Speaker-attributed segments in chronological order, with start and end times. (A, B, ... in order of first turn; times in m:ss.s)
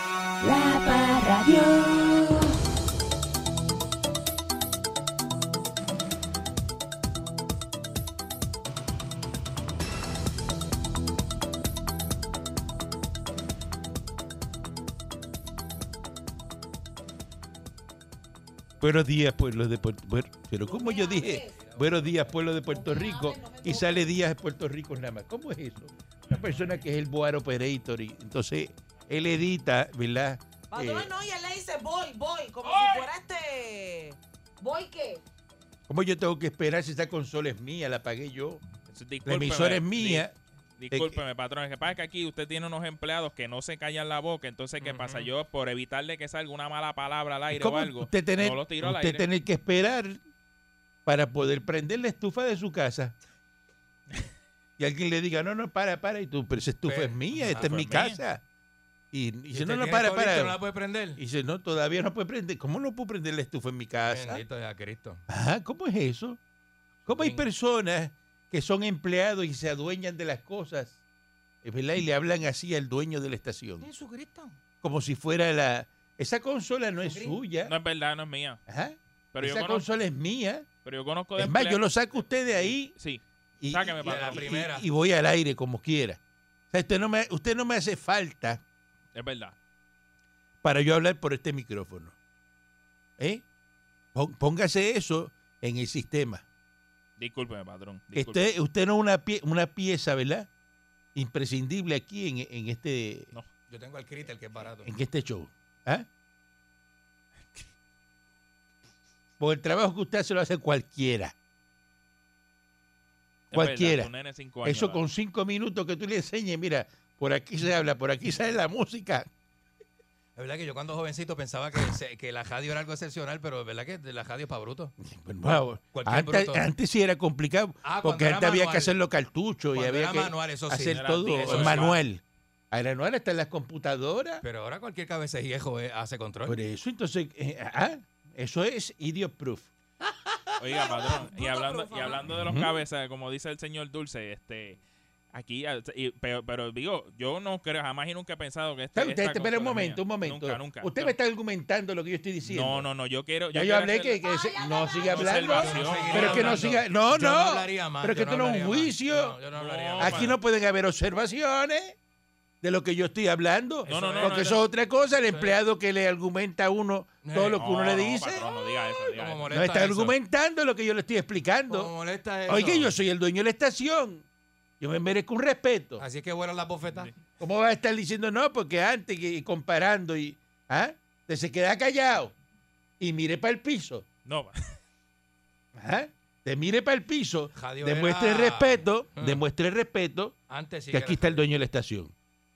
0:00.4-0:02.5 A
0:18.8-0:31.1 B
0:20.6-0:21.6 C
0:21.4-0:22.4 D
0:22.7-0:24.2 C
0:30.7-0:35.2 C
0:35.9-0:38.6 B
0:38.9-0:40.2 E
0:39.2-0:40.3 B
0:40.8-0:49.3 E
0:40.9-0:41.2 B
0:44.8-0:45.3 D
0:47.5-0:50.2 B
0:51.1-0:53.1 B
0:54.8-0:58.4 B
0:56.9-0:57.8 D
0:57.4-0:58.2 E
0:59.1-1:00.6 B
0:59.5-1:01.2 D
1:01.2-1:04.4 B
1:04.1-1:05.2 D
1:05.3-1:06.4 B
1:07.1-1:11.0 B
1:07.1-1:07.5 D
1:11.6-1:13.9 B
1:13.8-1:14.6 D
1:14.8-1:17.8 B
1:17.1-1:17.4 D
1:17.6-1:18.6 E
1:18.7-1:20.7 B
1:19.3-1:19.9 E
1:20.8-1:21.8 E
1:21.4-1:23.0 B
1:22.9-1:24.4 E
1:23.6-1:26.2 B
1:24.0-1:24.8 D
1:26.7-1:28.6 B
1:29.2-1:29.6 E
1:30.6-1:32.2 B
1:33.2-1:33.4 B
1:34.1-1:36.4 B
1:37.2-1:38.4 E
1:38.1-1:40.5 B
1:41.2-1:43.3 B
1:43.7-1:44.9 D
1:44.8-1:46.1 B
1:49.4-1:51.3 B
1:53.5-1:55.0 E
1:53.5-1:54.1 B
1:54.6-1:59.3 B
2:00.4-2:04.9 D
2:05.0-2:14.4 B
2:05.9-2:06.6 D
2:07.8-2:08.9 D
2:09.7-2:12.0 D
2:10.9-2:12.0 E
2:14.4-2:16.6 D
2:16.5-2:19.7 B
2:20.6-2:24.8 E
2:20.7-2:22.2 C
2:22.4-2:22.8 B
2:25.3-2:31.1 E
2:28.9-2:32.9 B
2:32.4-2:34.2 E
2:33.5-2:39.4 B
2:34.2-2:35.5 C
2:35.0-2:36.8 E
2:35.5-2:40.4 D
2:39.5-2:40.4 E
2:40.0-2:42.0 B
2:42.6-2:48.5 B
2:43.9-2:44.4 D
2:43.9-2:44.6 E
2:45.3-2:45.6 D
2:47.2-2:47.8 D
2:47.5-2:49.6 E
2:49.1-2:50.2 D
2:49.5-2:51.9 B
2:51.7-2:52.9 D
2:52.5-2:54.2 B
2:54.8-2:56.0 B
2:56.0-2:57.1 D
2:57.4-3:02.3 B
3:03.0-3:04.1 B
3:04.3-3:04.6 E
3:05.8-3:10.4 B
3:07.6-3:09.4 D
3:10.5-3:11.4 D
3:10.9-3:12.1 B